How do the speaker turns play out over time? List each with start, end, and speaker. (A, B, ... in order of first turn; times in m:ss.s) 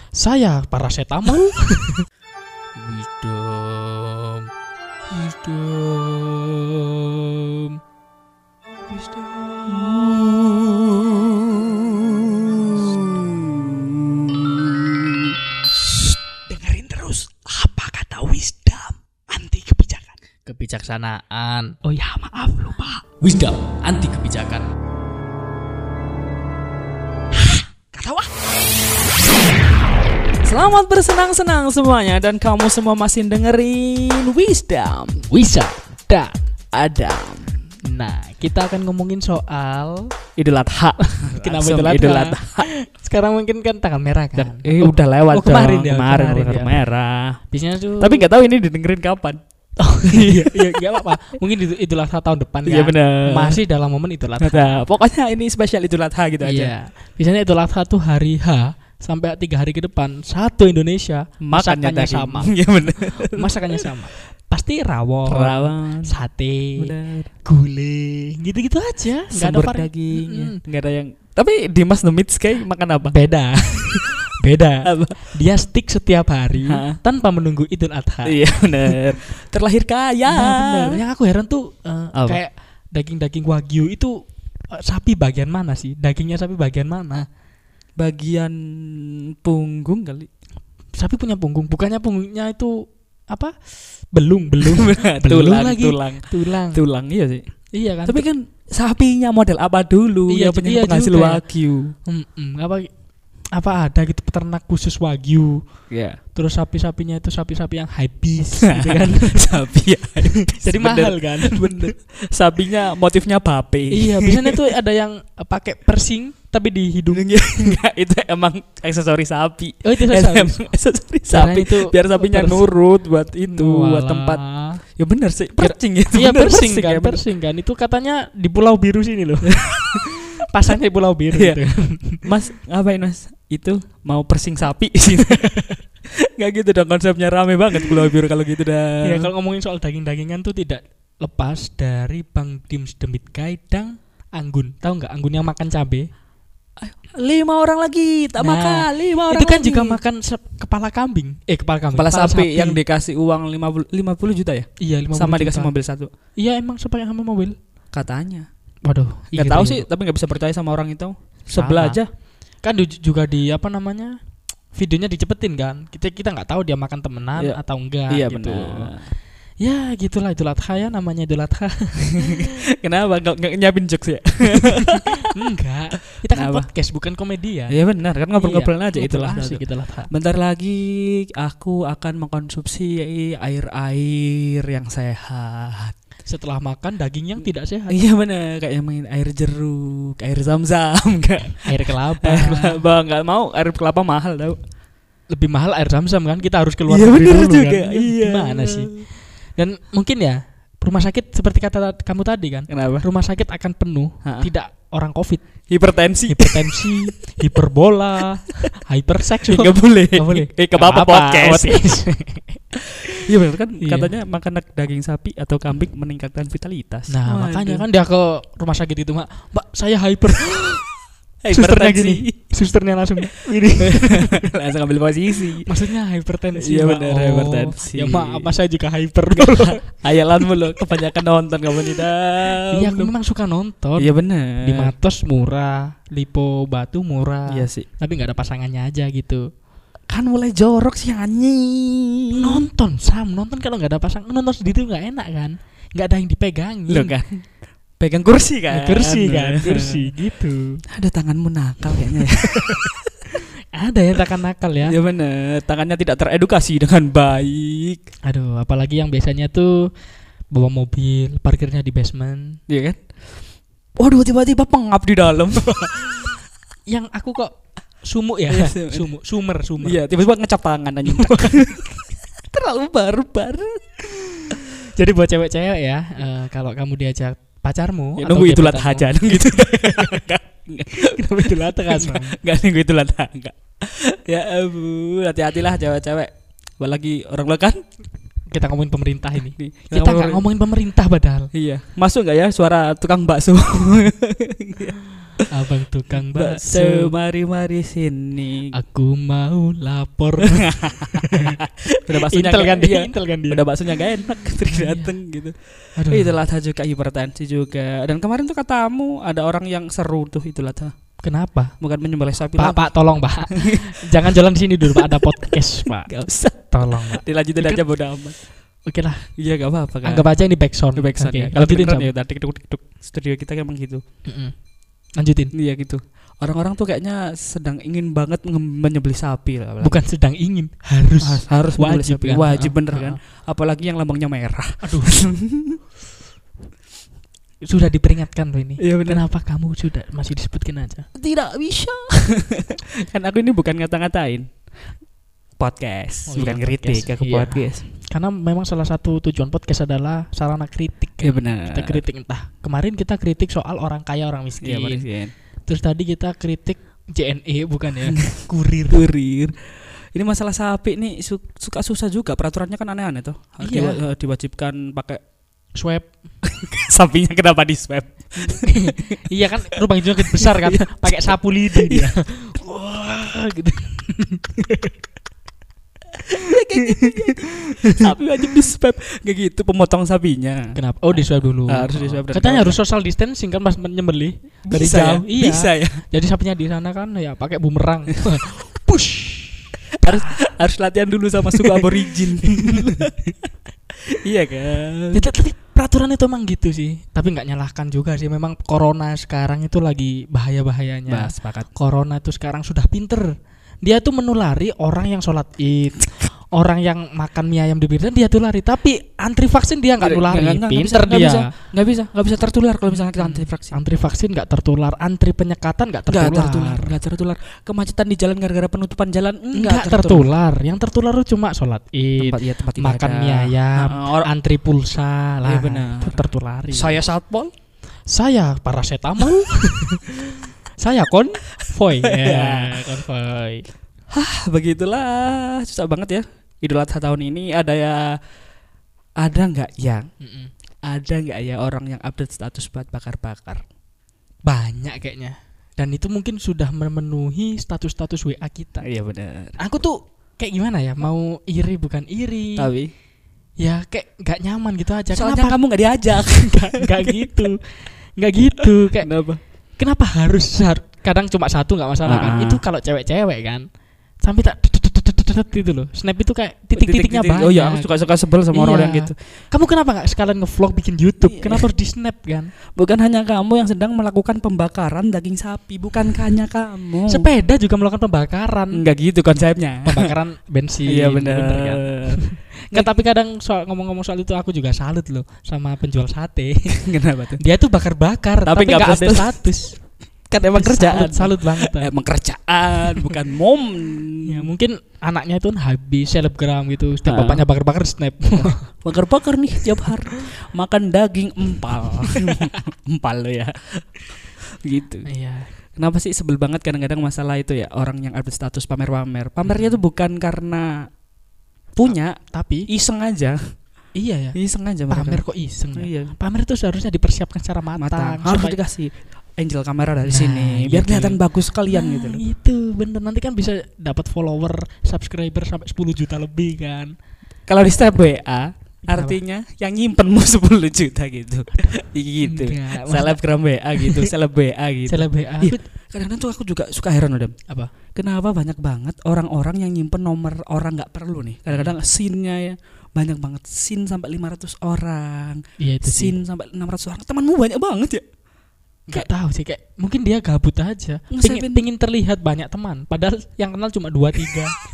0:00.1-0:02.0 A
0:02.8-0:04.4 A
0:05.1-0:07.8 A
0:08.9-0:15.3 B
0:16.5-0:18.7 A
0:16.5-0:17.0 B
0:17.7-0:19.6 B
0:19.4-0:21.8 A
0:21.8-0:23.0 B
0:23.2-0:24.7 A
0:27.9-0:28.3 B
0:30.4-0:35.3 B
0:35.3-0:36.4 A
0:36.7-0:37.6 B
0:37.8-0:40.1 A
0:40.4-0:42.7 B
0:41.0-0:46.8 A
0:44.4-0:47.4 B
0:47.5-0:48.2 A
0:48.0-0:49.4 B
0:49.8-0:54.8 A
0:50.1-0:51.3 B
0:52.6-0:53.6 B
0:54.4-0:56.7 B
0:56.4-1:02.5 A
1:01.4-1:03.8 B
1:03.2-1:06.9 A
1:05.3-1:06.2 B
1:06.8-1:07.3 B
1:07.4-1:10.6 A
1:09.3-1:13.2 B
1:13.1-1:19.0 A
1:14.8-1:15.3 B
1:16.6-1:17.0 B
1:18.2-1:21.0 B
1:20.3-1:24.1 A
1:22.1-1:22.4 B
1:24.7-1:27.2 A
1:28.0-1:30.3 B
1:31.0-1:36.8 A
1:34.6-1:37.4 B
1:37.7-1:38.2 A
1:38.0-1:41.9 B
1:40.3-1:41.4 A
1:42.1-1:42.9 A
1:43.5-1:45.6 A
1:45.9-1:46.2 B
1:46.3-1:49.5 A
1:48.6-1:54.6 B
1:50.4-1:51.9 A
1:53.9-1:57.7 A
1:57.1-2:04.4 B
1:59.8-2:00.6 A
2:01.3-2:02.7 A
2:03.5-2:04.8 A
2:04.9-2:07.2 B
2:05.6-2:12.2 A
2:09.6-2:10.0 B
2:11.3-2:11.6 B
2:12.2-2:15.5 B
2:15.4-2:15.8 A
2:16.0-2:19.3 B
2:19.0-2:26.1 A
2:26.8-2:30.0 B
2:28.4-2:32.8 A
2:31.9-2:36.1 B
2:34.8-2:35.7 A
2:36.4-2:37.6 A
2:37.9-2:38.5 B
2:38.8-2:39.8 A
2:39.3-2:42.1 B
2:41.5-2:42.0 A
2:42.6-2:44.2 A
2:44.7-2:48.9 A
2:47.4-2:49.1 B
2:49.6-2:52.4 A
2:52.1-2:55.3 B
2:55.3-2:57.7 A
2:56.3-2:56.7 B
2:57.7-3:05.9 B
2:58.4-3:00.1 A
3:06.3-3:08.0 A
3:07.9-3:14.6 B
3:11.6-3:12.8 A
3:15.3-3:18.9 A
3:16.9-3:19.1 B
3:19.6-3:25.4 A
3:22.7-3:23.0 B
3:24.2-3:24.5 B
3:25.7-3:27.2 B
3:26.3-3:32.6 A
3:29.5-3:31.9 B
3:33.1-3:37.8 B
3:33.8-3:34.1 A
3:37.1-3:40.9 A
3:41.4-3:42.3 B
3:41.5-3:44.4 A
3:43.2-3:45.9 B
3:45.6-3:49.9 A
3:46.6-3:48.5 B
3:49.3-3:53.1 B
3:52.7-3:59.4 A
3:54.0-3:54.9 B
3:57.5-3:57.9 B
4:00.1-4:02.6 B
4:02.4-4:07.1 A
4:06.9-4:07.4 B
4:08.0-4:10.1 B
4:08.7-4:10.8 A
4:10.9-4:13.3 B
4:13.7-4:15.0 A
4:14.8-4:18.0 B
4:18.2-4:19.9 A
4:20.5-4:22.6 A
4:22.7-4:23.0 B
4:24.0-4:26.4 B
4:26.9-4:30.0 A
4:28.5-4:29.1 B
4:29.8-4:34.6 B
4:31.1-4:31.6 A
4:34.5-4:40.2 A
4:38.2-4:47.8 B
4:41.0-4:42.4 A
4:48.5-4:51.5 A
4:49.5-4:50.4 B
4:51.5-4:58.7 B
4:55.5-4:57.1 A
4:58.7-5:01.6 A
5:00.4-5:05.6 B
5:02.1-5:03.6 A
5:04.7-5:05.1 A
5:06.0-5:06.4 A
5:06.1-5:10.9 B
5:11.2-5:11.7 A
5:11.8-5:12.9 B
5:12.6-5:16.1 A
5:13.5-5:14.4 B
5:14.9-5:18.4 B
5:16.7-5:17.8 A
5:18.9-5:19.3 A
5:19.4-5:20.3 B
5:20.0-5:22.1 A
5:20.9-5:24.0 B
5:24.2-5:24.5 A
5:25.2-5:25.5 A
5:25.5-5:30.0 B
5:29.8-5:33.2 A
5:31.2-5:35.8 B
5:34.8-5:35.3 A
5:37.7-5:41.1 A
5:38.8-5:39.2 B
5:41.1-5:44.5 B
5:45.6-5:47.8 B
5:46.3-5:55.0 A
5:51.2-5:52.0 B
5:54.6-5:55.3 B
5:55.7-5:59.0 A
5:58.0-6:05.2 B
6:03.6-6:04.0 A
6:05.8-6:06.1 A
6:06.4-6:12.1 B
6:08.6-6:14.9 A
6:16.3-6:18.0 A
6:16.4-6:22.8 B
6:20.7-6:30.4 A
6:24.7-6:26.0 B
6:30.0-6:33.1 B
6:31.5-6:33.0 A
6:34.1-6:35.2 B
6:35.1-6:43.3 A
6:41.1-6:41.7 B
6:43.8-6:51.5 A
6:50.0-6:53.8 B
6:52.9-6:56.9 A
6:56.1-7:00.3 B
6:59.5-7:07.0 A
7:02.2-7:04.3 B
7:05.4-7:07.5 B
7:08.1-7:13.6 A
7:11.6-7:13.0 B
7:14.1-7:18.2 B
7:19.2-7:20.1 B
7:20.2-7:20.5 A
7:20.9-7:23.6 B
7:24.4-7:28.9 A
7:28.8-7:29.6 B
7:29.6-7:32.7 A
7:32.6-7:32.9 B
7:33.6-7:35.6 A
7:35.1-7:37.5 B
7:36.1-7:39.1 A
7:38.6-7:39.4 B
7:39.8-7:43.6 A
7:42.0-7:42.6 B
7:44.2-7:48.0 A
7:46.7-7:49.2 B
7:48.5-7:52.5 A
7:51.2-7:51.7 B
7:52.8-7:57.3 B
7:57.1-7:58.8 A
7:58.7-8:00.1 B
7:59.8-8:06.8 A
8:00.9-8:02.9 B
8:06.7-8:07.4 B
8:07.4-8:09.8 A
8:08.4-8:09.4 B
8:10.3-8:14.5 B
8:10.5-8:11.9 A
8:14.2-8:18.6 A
8:17.0-8:17.5 B
8:18.4-8:23.8 B
8:24.6-8:25.1 B
8:25.0-8:25.5 A
8:25.8-8:30.8 B
8:29.4-8:29.8 A
8:31.8-8:32.2 B
8:32.3-8:32.6 A
8:32.7-8:33.4 B
8:34.0-8:34.4 A
8:34.3-8:36.2 B
8:34.9-8:38.6 A
8:37.8-8:42.2 B
8:40.1-8:46.9 A
8:47.4-8:57.3 B
8:48.9-8:49.2 A
8:52.2-8:53.2 A
8:53.8-8:54.1 A
8:54.9-8:55.6 A
8:57.9-9:08.0 B
9:05.6-9:06.2 A
9:08.9-9:14.6 A
9:11.1-9:11.6 B